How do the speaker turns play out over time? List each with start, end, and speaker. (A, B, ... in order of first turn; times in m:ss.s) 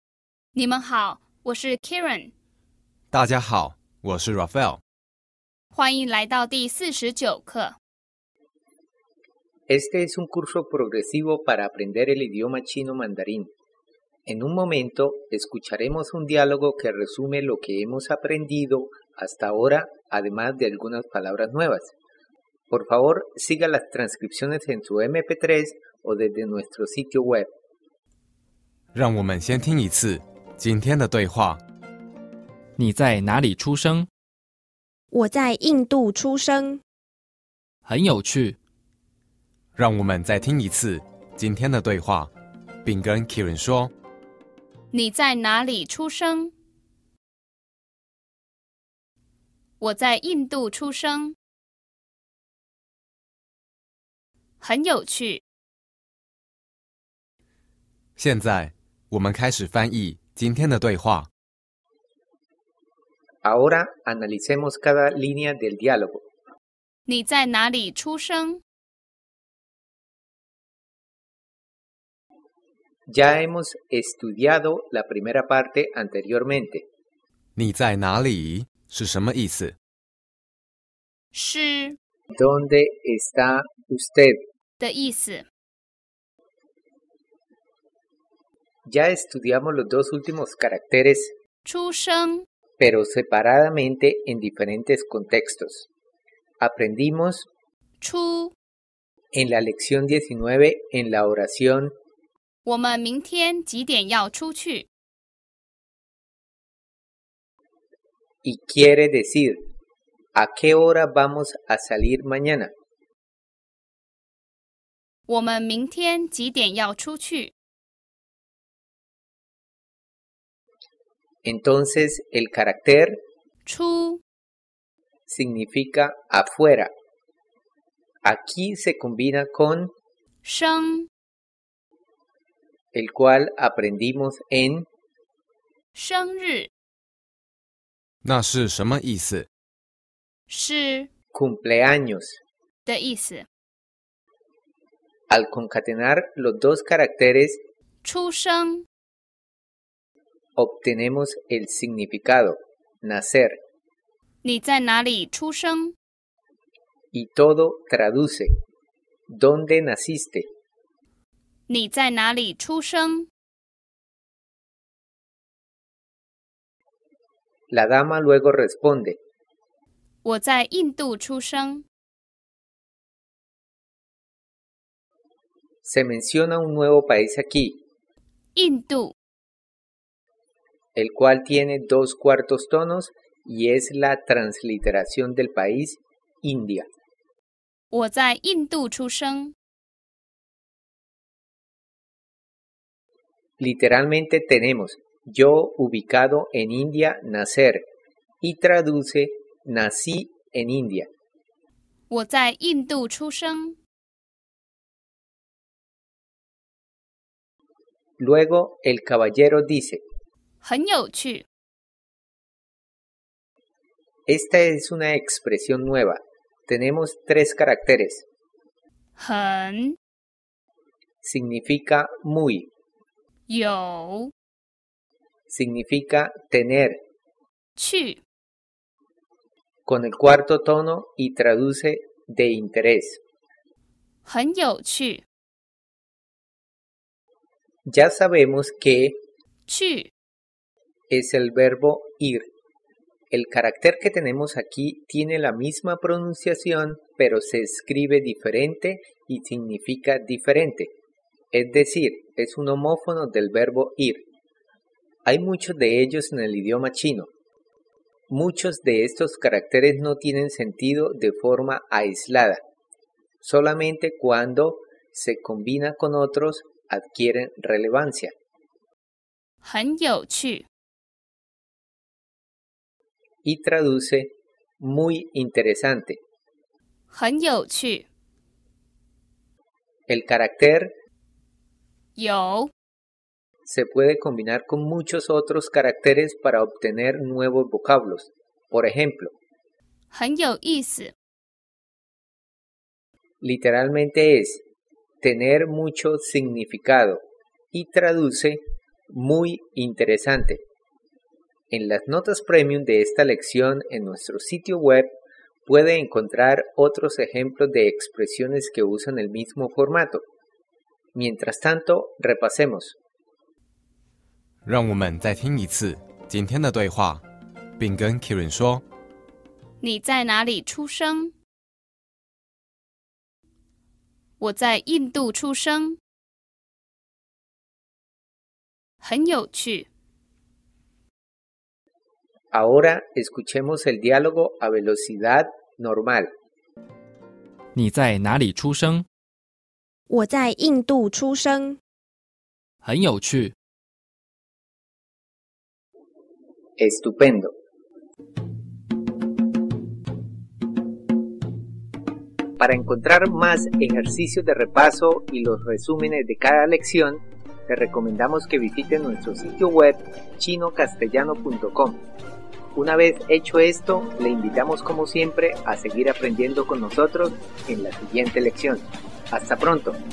0:00.6-0:02.3 A
0:03.1-0:04.8 B
0:05.7-0:07.8 A
0:09.7-0:13.5 C
0:14.2-0:21.9 C
0:22.7-0:27.5 C
0:28.9-0:31.6 B
0:32.8-0:34.1 D
0:35.1-0:36.8 E
0:37.8-0:38.6 D
0:39.8-0:42.3 B
0:42.8-0:43.9 B
0:44.9-0:46.5 A
0:49.8-0:51.3 A
0:54.6-0:55.4 A
0:58.2-1:01.3 B
1:03.4-1:06.2 C
1:07.1-1:08.6 A
1:13.1-1:16.8 C
1:17.6-1:19.8 B
1:21.3-1:22.0 A
1:22.3-1:24.4 C
1:24.8-1:25.4 A
1:28.9-1:31.3 C
1:31.6-1:32.4 A
1:32.8-1:35.9 C
1:36.6-1:37.5 C
1:38.0-1:38.5 A
1:39.3-1:41.9 C
1:42.7-1:44.9 A
1:48.4-1:49.6 C
1:50.3-1:52.7 C
1:55.3-1:57.5 A
2:01.4-2:03.2 C
2:03.7-2:04.2 A
2:05.3-2:06.9 C
2:08.2-2:09.9 C
2:10.4-2:11.1 A
2:12.9-2:14.9 C
2:15.9-2:16.7 A
2:18.2-2:19.5 B
2:20.5-2:21.1 A
2:21.3-2:22.4 C
2:22.8-2:23.4 A
2:25.3-2:27.6 C
2:28.0-2:28.8 A
2:30.6-2:33.6 C
2:34.4-2:35.9 A
2:37.1-2:38.5 C
2:39.3-2:40.5 C
2:41.7-2:43.3 A
2:47.7-2:49.2 C
2:50.2-2:51.8 A
2:55.8-2:57.8 C
2:58.5-2:59.1 A
3:00.9-3:06.9 C
3:07.9-3:09.5 A
3:13.6-3:17.9 C
3:18.4-3:21.1 C
3:22.1-3:23.8 A
3:28.2-3:30.0 C
3:30.6-3:31.4 A
3:34.3-3:38.2 C
3:39.2-3:40.0 A
3:41.2-3:42.7 C
3:43.5-3:44.3 A
3:45.5-3:47.0 C
3:47.8-3:48.2 A
3:49.8-3:53.2 C
3:54.2-3:55.2 A
3:57.9-3:59.2 C
3:59.7-4:00.1 A
4:01.1-4:02.5 C
4:03.3-4:10.9 C
4:11.5-4:14.2 C
4:15.2-4:17.3 C
4:18.3-4:22.6 C
4:23.4-4:28.3 C
4:29.6-4:30.6 A
4:33.4-4:36.2 C
4:37.1-4:38.1 A
4:40.1-4:40.9 C
4:42.2-4:42.7 A
4:43.6-4:49.3 C
4:50.1-4:51.1 A
4:53.4-4:54.6 C
4:55.2-4:57.2 C
4:57.7-5:00.6 C
5:01.7-5:05.1 C
5:05.7-5:10.2 C
5:11.1-5:13.0 C
5:14.6-5:17.2 B
5:17.8-5:18.8 B
5:19.8-5:21.3 A
5:24.4-5:26.0 A
5:29.0-5:29.9 A
5:32.5-5:36.3 C
5:37.8-5:39.1 D
5:40.1-5:41.8 E
5:42.8-5:43.6 D
5:46.8-5:47.5 C
5:52.6-6:02.0 C
6:02.8-6:10.0 C